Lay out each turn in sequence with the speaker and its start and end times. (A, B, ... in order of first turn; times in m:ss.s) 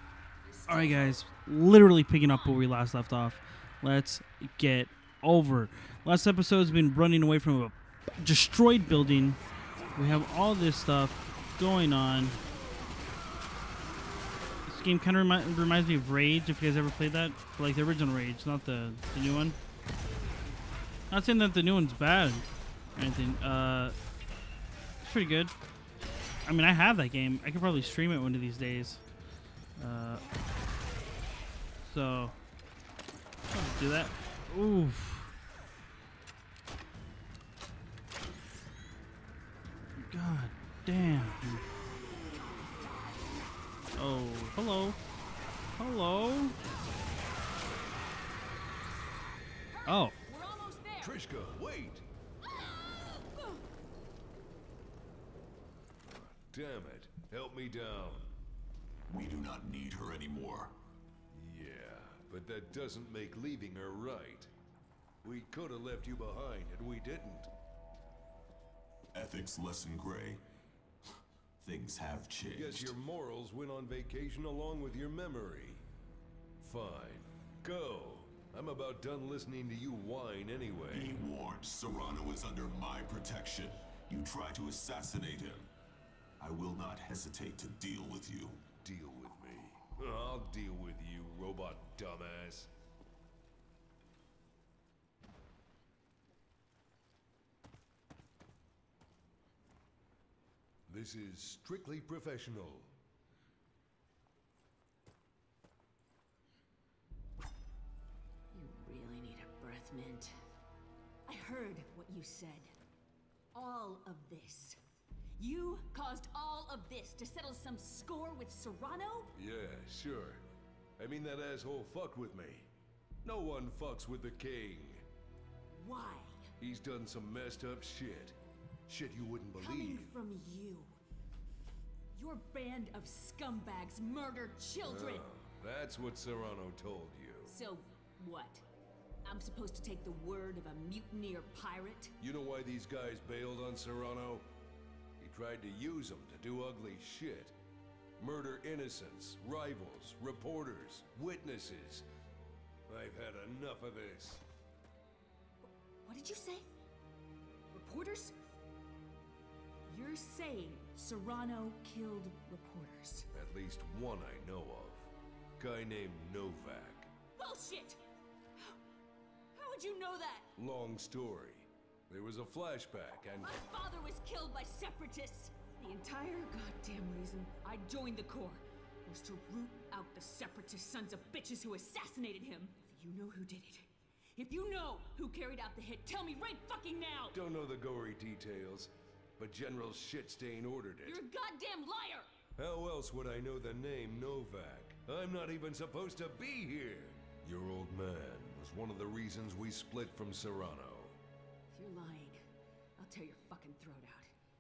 0:00.4-0:01.2 A
0:00.7-0:09.4 B
0:02.1-0:02.6 A
0:09.9-0:12.4 B
0:14.6-0:19.6 B
0:21.1-0:24.0 B
0:25.0-0:25.5 B
0:26.4-0:29.0 B
0:29.8-0:30.2 B
0:31.8-0:32.4 B
0:33.5-0:35.3 B
0:40.0-0:41.6 B
0:44.0-0:45.0 B
0:45.8-0:46.6 B
0:49.7-0:51.1 A
0:49.8-0:50.2 B
0:51.0-0:52.0 C
0:52.4-0:53.6 A
0:56.0-0:58.3 C
0:59.1-1:00.7 D
1:01.3-1:04.5 C
1:05.2-1:07.5 C
1:09.1-1:10.4 D
1:11.6-1:12.9 D
1:12.5-1:15.8 C
1:16.6-1:21.2 C
1:20.9-1:25.7 D
1:26.4-1:28.7 D
1:28.7-1:32.7 C
1:40.9-1:42.9 C
1:48.5-1:50.3 A
1:51.3-1:52.7 A
1:53.5-1:54.8 A
1:55.4-1:59.3 A
1:59.3-2:00.4 C
2:01.0-2:02.7 C
2:03.2-2:05.0 C
2:05.7-2:06.5 A
2:06.6-2:10.1 C
2:09.6-2:11.0 A
2:12.1-2:15.2 A
2:14.8-2:17.5 C
2:17.4-2:18.6 A
2:19.2-2:22.1 A
2:22.2-2:24.5 C
2:25.2-2:27.5 C
2:28.2-2:32.0 C
2:32.9-2:34.4 C
2:35.6-2:36.6 A
2:37.7-2:38.3 A
2:39.9-2:43.3 A
2:43.3-2:47.1 C
2:47.4-2:48.0 A
2:49.5-2:50.5 A
2:50.6-2:53.6 C
2:53.4-3:07.4 A
3:07.3-3:11.2 C
3:11.0-3:12.3 A
3:12.6-3:21.2 C
3:21.7-3:22.4 A
3:23.0-3:24.3 A